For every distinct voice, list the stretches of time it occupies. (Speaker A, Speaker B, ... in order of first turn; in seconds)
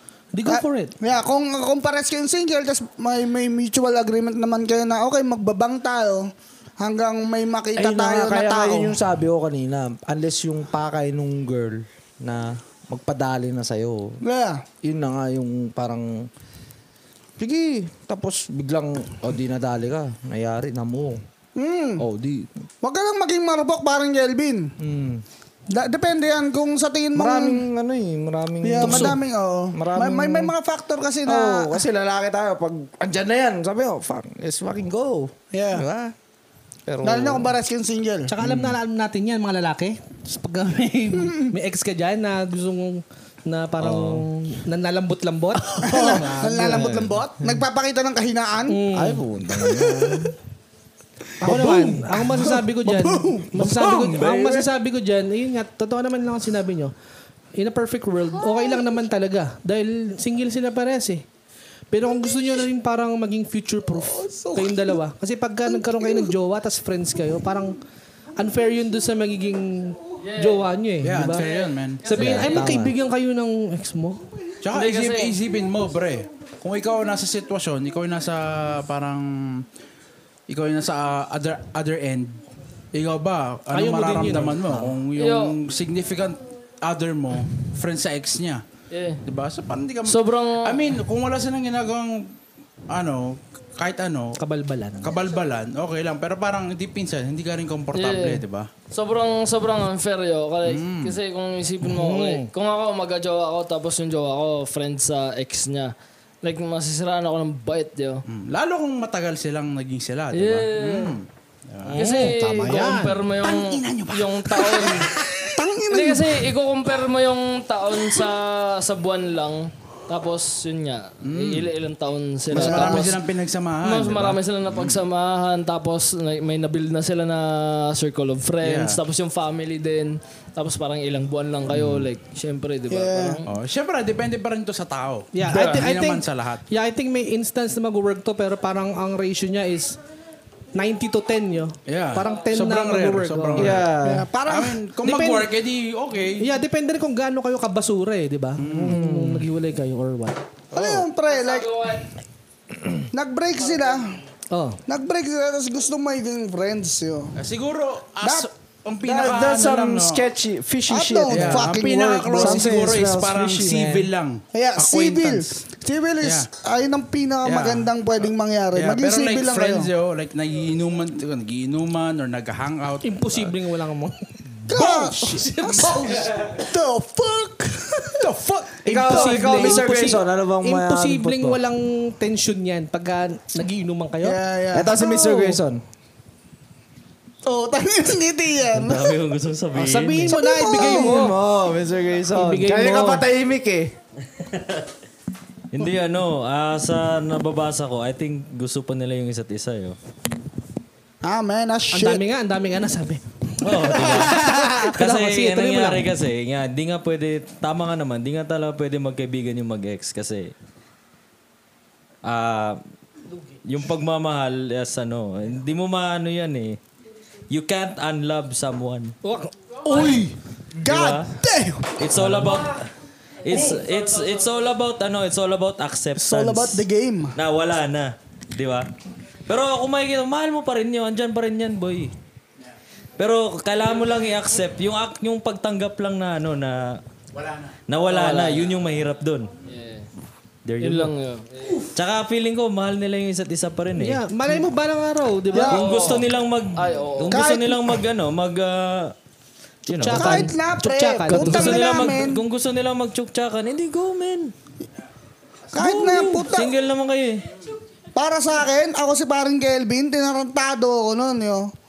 Speaker A: 0.3-0.9, 28.8-29.2, 38.3-46.9, 48.7-49.2, 51.4-56.9, 57.5-61.2, 61.9-67.7, 68.4-71.5, 72.0-74.2, 83.7-84.8, 94.4-95.2, 101.8-102.5, 111.9-113.2, 135.3-140.0, 140.7-143.8, 145.0-145.5, 146.4-150.4, 154.5-154.8, 173.0-174.2, 174.8-176.3, 178.8-184.4, 189.7-191.3, 192.3-193.2, 201.9-206.1, 219.2-219.5, 243.9-245.9, 249.9-252.0
Speaker B: 0.5-9.0, 14.2-14.6, 21.6-22.0, 22.8-24.7, 25.7-27.6, 28.6-31.8, 35.5-35.9, 37.0-38.3, 41.2-41.5, 45.8-48.8, 49.6-50.2, 51.4-51.7, 52.9-53.5, 64.2-64.9, 65.7-66.3, 115.5-116.5, 122.5-123.1, 132.9-133.4, 144.0-144.8, 150.7-151.9, 153.1-154.2, 154.9-157.3, 158.2-158.5, 160.9-162.9, 164.5-169.9, 174.7-178.3, 184.2-185.6, 187.4-189.2, 190.3-191.2, 201.2-202.2, 219.8-221.9, 226.2-227.3, 245.5-246.0, 247.3-248.0, 250.1-252.4, 255.7-256.7, 258.1-261.7
Speaker C: 7.8-14.2, 14.8-16.3, 17.4-21.2, 22.0-22.6, 24.8-25.2, 27.1-30.5, 31.2-36.1, 36.9-37.5, 38.4-38.8, 45.8-47.1, 48.9-50.3, 51.4-54.7, 72.2-72.9, 143.6-144.3, 148.8-149.5, 159.0-161.7, 162.3-164.1, 178.8-181.6, 184.7-185.8, 190.7-193.9
Speaker D: 43.8-44.2, 188.7-190.3, 194.5-194.8, 195.7-199.9, 203.6-210.5, 212.2-212.8, 213.6-216.8, 217.5-219.1, 220.8-221.3, 222.0-222.9, 223.4-228.9, 229.5-232.1, 233.2-237.0, 237.9-239.5, 240.6-241.1, 241.9-244.2, 245.6-249.1, 249.8-250.5, 251.3-254.5, 255.8-257.4
Speaker E: 70.2-70.7, 71.3-72.7, 74.7-75.4, 85.1-85.6, 88.9-89.2, 90.0-90.9, 97.9-108.2, 110.3-111.2, 111.9-115.2, 115.9-123.2, 123.8-133.4, 135.5-135.8, 142.2-142.5, 151.2-152.1, 238.1-238.7, 239.6-240.1, 240.8-241.9, 245.8-246.2, 246.8-247.4
Speaker F: 71.0-72.3, 74.6-79.6, 80.5-82.4, 82.9-88.6, 89.2-92.4, 92.9-94.4, 95.0-98.7, 100.6-101.2, 108.3-112.2, 113.4-115.5, 121.2-121.7, 122.5-125.0, 128.6-129.0, 133.4-136.6, 141.8-143.9, 144.4-146.5, 148.6-149.0, 150.7-151.0, 157.3-160.2, 161.3-165.6, 166.2-166.5, 167.4-167.9, 168.8-173.5, 178.2-179.2, 237.3-237.8